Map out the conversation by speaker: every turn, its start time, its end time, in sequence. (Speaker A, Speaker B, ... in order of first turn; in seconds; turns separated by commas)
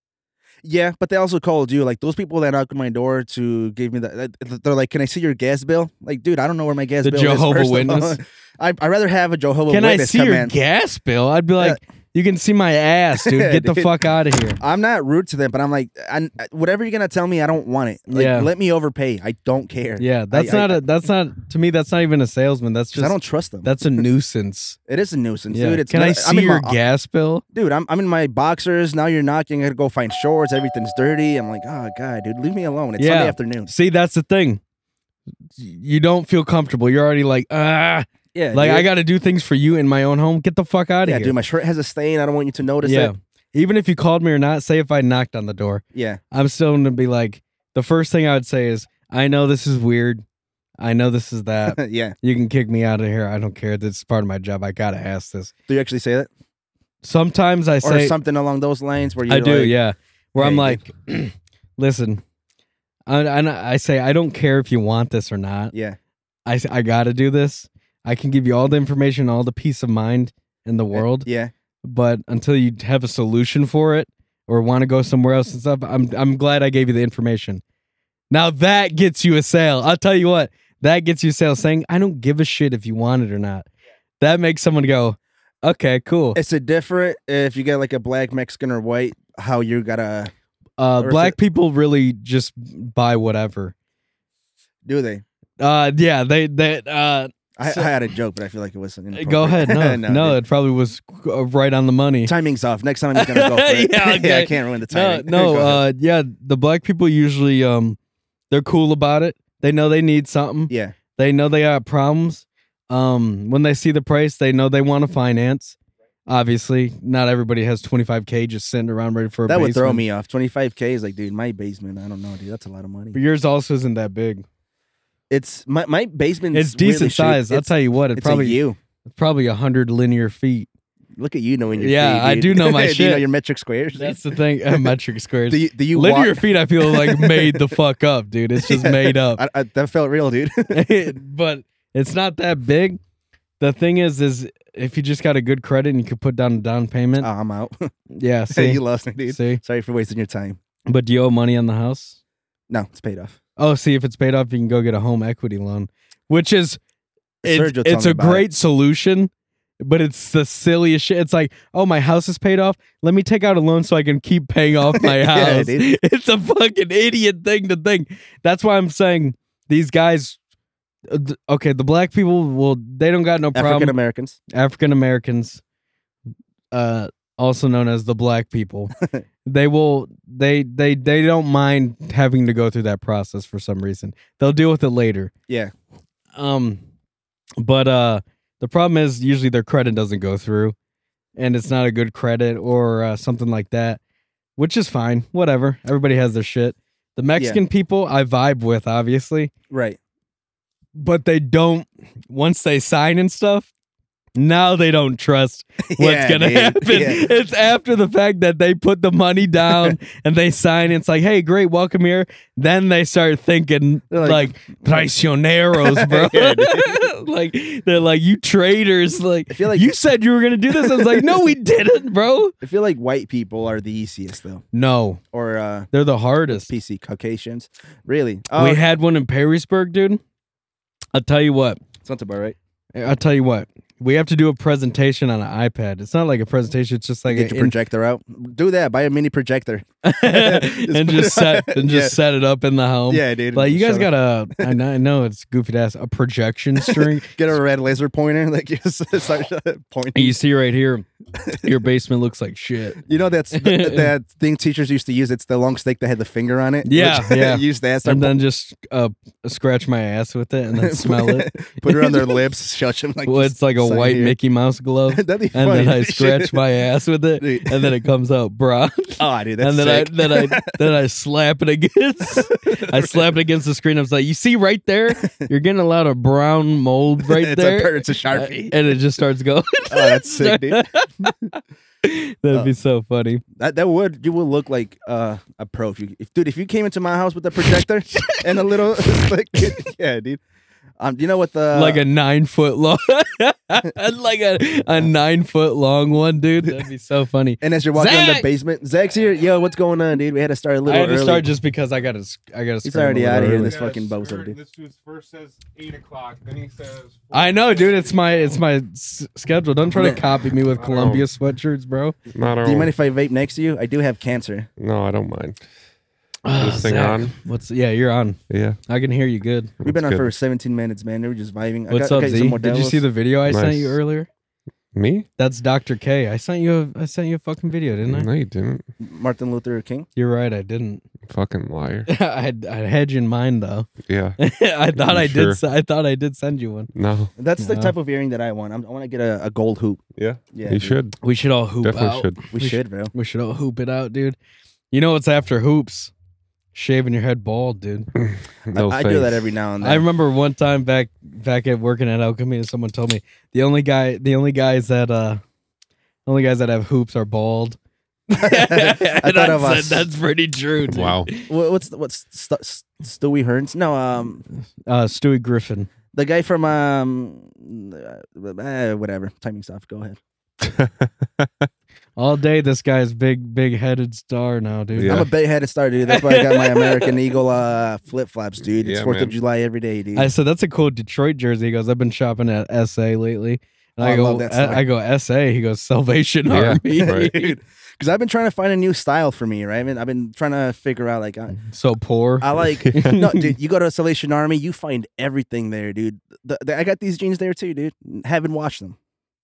Speaker A: 0.6-10.5, Speaker B: 7.0-8.2, Speaker B: 9.7-14.6, Speaker A: 13.2-13.9, Speaker A: 14.6-20.8, Speaker B: 18.1-18.5, Speaker B: 20.0-24.8, Speaker A: 22.9-23.8, Speaker A: 24.9-26.8, Speaker B: 25.5-27.4, Speaker A: 27.5-33.7, Speaker B: 33.0-34.6, Speaker B: 35.6-41.3, Speaker A: 38.3-38.9, Speaker A: 41.0-43.1, Speaker B: 42.8-50.2, Speaker A: 45.9-46.2, Speaker B: 50.8-55.5, Speaker A: 51.7-52.1, Speaker A: 55.7-56.3, Speaker B: 57.0-58.1, Speaker A: 57.8-59.7, Speaker B: 59.3-62.2, Speaker A: 60.4-60.8, Speaker B: 63.1-65.7, Speaker A: 65.7-66.0, Speaker B: 66.5-71.3, Speaker A: 70.9-71.5, Speaker B: 71.8-77.6, Speaker B: 78.3-83.7, Speaker B: 84.2-86.4, Speaker A: 86.3-90.3, Speaker B: 90.8-93.7, Speaker A: 91.0-91.4, Speaker A: 94.8-95.2, Speaker B: 95.6-97.9, Speaker A: 97.6-100.4, Speaker B: 99.1-102.3, Speaker A: 102.2-105.8, Speaker B: 103.1-108.0, Speaker B: 108.5-120.0, Speaker A: 110.7-111.0, Speaker A: 119.5-123.2, Speaker B: 123.1-124.4, Speaker A: 125.3-128.8, Speaker B: 126.5-130.7, Speaker A: 131.2-134.2, Speaker B: 131.8-133.2, Speaker B: 133.9-139.4, Speaker A: 135.5-137.8, Speaker A: 138.6-140.8, Speaker B: 140.7-143.0, Speaker B: 143.6-147.3, Speaker A: 147.2-147.9, Speaker B: 148.1-149.6, Speaker A: 148.5-150.6, Speaker B: 150.9-152.2, Speaker A: 152.7-153.4, Speaker B: 153.6-156.8, Speaker A: 157.4-158.4, Speaker B: 157.4-170.4, Speaker A: 164.9-165.9, Speaker B: 171.1-173.9, Speaker A: 173.5-174.4, Speaker B: 174.5-175.6, Speaker B: 176.7-178.9, Speaker B: 179.4-185.3, Speaker B: 186.3-186.8, Speaker B: 187.6-190.7, Speaker B: 191.4-194.0, Speaker B: 194.6-199.5, Speaker A: 199.7-200.0, Speaker B: 200.9-203.7, Speaker B: 204.3-222.5, Speaker A: 205.8-207.3, Speaker A: 209.7-209.9, Speaker A: 214.1-215.1, Speaker A: 215.7-217.0, Speaker A: 219.5-219.9, Speaker A: 220.7-221.2, Speaker A: 222.6-224.6, Speaker B: 224.7-225.2, Speaker A: 225.3-225.9, Speaker B: 225.9-226.7, Speaker A: 226.5-228.8, Speaker B: 228.5-230.2, Speaker B: 231.1-231.8, Speaker A: 232.0-232.6, Speaker B: 232.9-237.7, Speaker A: 237.3-242.2, Speaker B: 240.0-247.3, Speaker A: 243.1-244.7, Speaker A: 246.8-250.4, Speaker B: 250.1-253.0, Speaker A: 253.0-258.4, Speaker B: 253.5-254.1, Speaker B: 256.8-262.3, Speaker A: 260.8-264.4, Speaker B: 263.2-281.3, Speaker A: 265.1-266.6, Speaker A: 267.4-267.9, Speaker A: 269.2-270.8, Speaker A: 272.3-273.2, Speaker A: 277.2-278.9, Speaker A: 279.9-281.3, Speaker B: 282.0-283.4, Speaker A: 283.6-290.4, Speaker B: 288.1-288.4, Speaker B: 289.0-289.2, Speaker A: 291.0-292.0, Speaker B: 291.7-298.5, Speaker A: 297.6-301.5, Speaker B: 300.9-303.8, Speaker A: 302.8-304.6, Speaker C: 303.6-308.6, Speaker B: 307.3-312.1, Speaker A: 309.9-310.2, Speaker C: 310.6-311.1, Speaker D: 310.9-311.3, Speaker D: 312.3-312.9, Speaker A: 312.6-314.7, Speaker D: 314.8-315.6, Speaker B: 316.4-319.7, Speaker D: 316.5-317.3, Speaker D: 318.5-318.8, Speaker D: 319.8-320.3, Speaker A: 319.8-323.0, Speaker B: 321.9-324.3, Speaker D: 323.5-324.0, Speaker D: 324.9-325.3, Speaker B: 325.4-328.3, Speaker D: 328.1-328.8, Speaker A: 329.0-330.1, Speaker B: 330.1-331.0, Speaker D: 331.3-332.1, Speaker B: 332.1-336.9, Speaker D: 334.1-334.4, Speaker D: 334.9-335.6, Speaker D: 336.9-337.3, Speaker A: 337.4-340.0, Speaker B: 337.6-337.9, Speaker D: 340.2-341.2, Speaker A: 340.5-341.0, Speaker B: 341.2-344.4, Speaker D: 341.8-342.4, Speaker A: 342.5-343.1, Speaker B: 344.9-346.1, Speaker B: 346.7-348.1, Speaker D: 348.2-349.5, Speaker A: 348.7-350.1, Speaker B: 349.8-355.4, Speaker B: 356.2-357.8, Speaker B: 358.3-361.5, Speaker A: 358.4-360.1, Speaker D: 360.9-361.3, Speaker A: 361.5-364.4, Speaker B: 364.9-365.9, Speaker A: 366.1-370.2, Speaker D: 370.6-371.4, Speaker B: 372.2-375.2, Speaker D: 374.9-375.3, Speaker A: 375.0-380.3, Speaker B: 376.1-377.1, Speaker D: 378.8-379.3, Speaker B: 380.1-387.5, Speaker A: 384.0-384.8, Speaker D: 386.5-387.3, Speaker A: 387.0-391.6, Speaker B: 391.6-393.5, Speaker A: 392.4-399.0, Speaker D: 392.9-393.1